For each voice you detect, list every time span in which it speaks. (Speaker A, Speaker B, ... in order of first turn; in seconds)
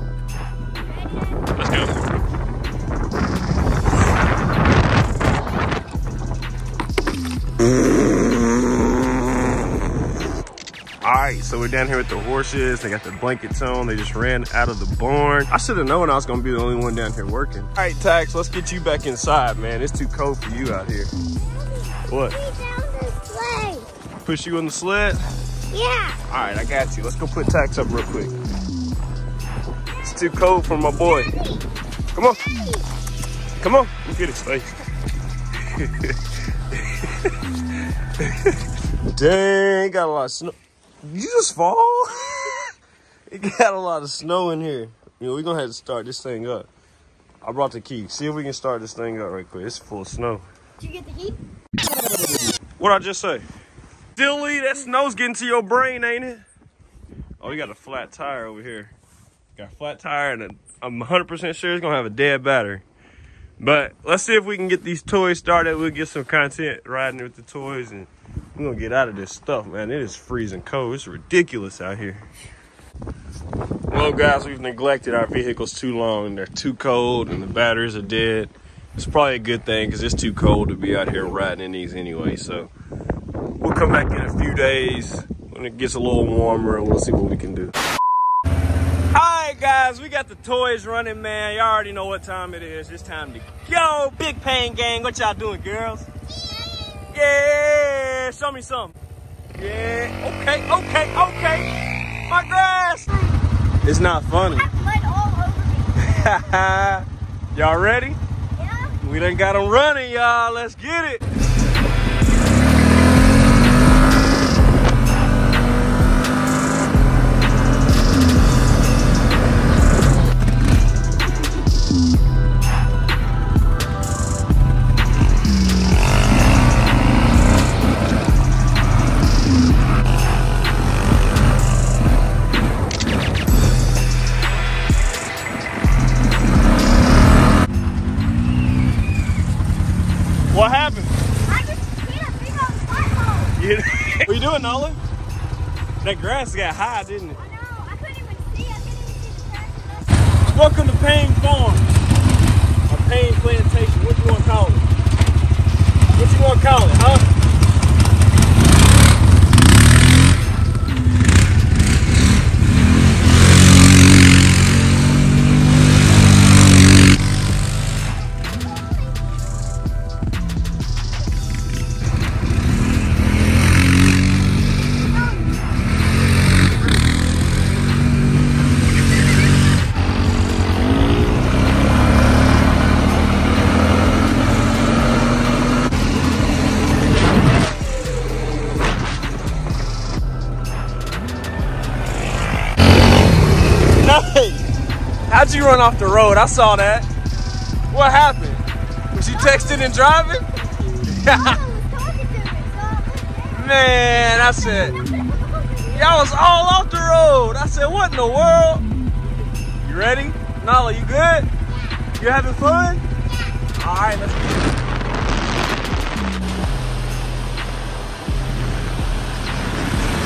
Speaker A: 1.6-1.9, 11.0-21.1, 22.1-22.4, 24.2-25.2, 26.3-28.4, 30.0-31.3, 32.1-32.5, 33.6-34.7, 35.6-37.3, 38.2-42.7, 43.3-46.7, 47.4-50.5, 52.8-53.5, 54.2-56.4, 57.4-58.9, 59.6-62.8, 63.6-72.3, 73.9-82.7, 83.6-87.7, 89.1-96.1, 97.1-99.0, 99.5-101.7, 102.3-103.1, 103.8-104.7, 106.0-108.2, 109.0-111.2, 140.5-141.1, 143.6-145.0, 146.0-147.4, 150.4-151.9, 152.9-154.8, 156.1-157.3, 194.0-194.7, 195.3-197.1, 197.9-200.5, 201.1-201.6, 203.5-205.0, 205.9-208.8, 209.8-211.5, 212.2-213.0, 213.7-214.7
Speaker B: 22.3-23.9, 25.7-26.2, 31.2-31.5, 32.5-32.8, 50.8-51.4, 96.3-97.1, 104.5-106.2, 108.6-109.0, 141.5-143.6, 147.4-150.4, 199.3-199.9, 200.8-203.8, 204.9-206.3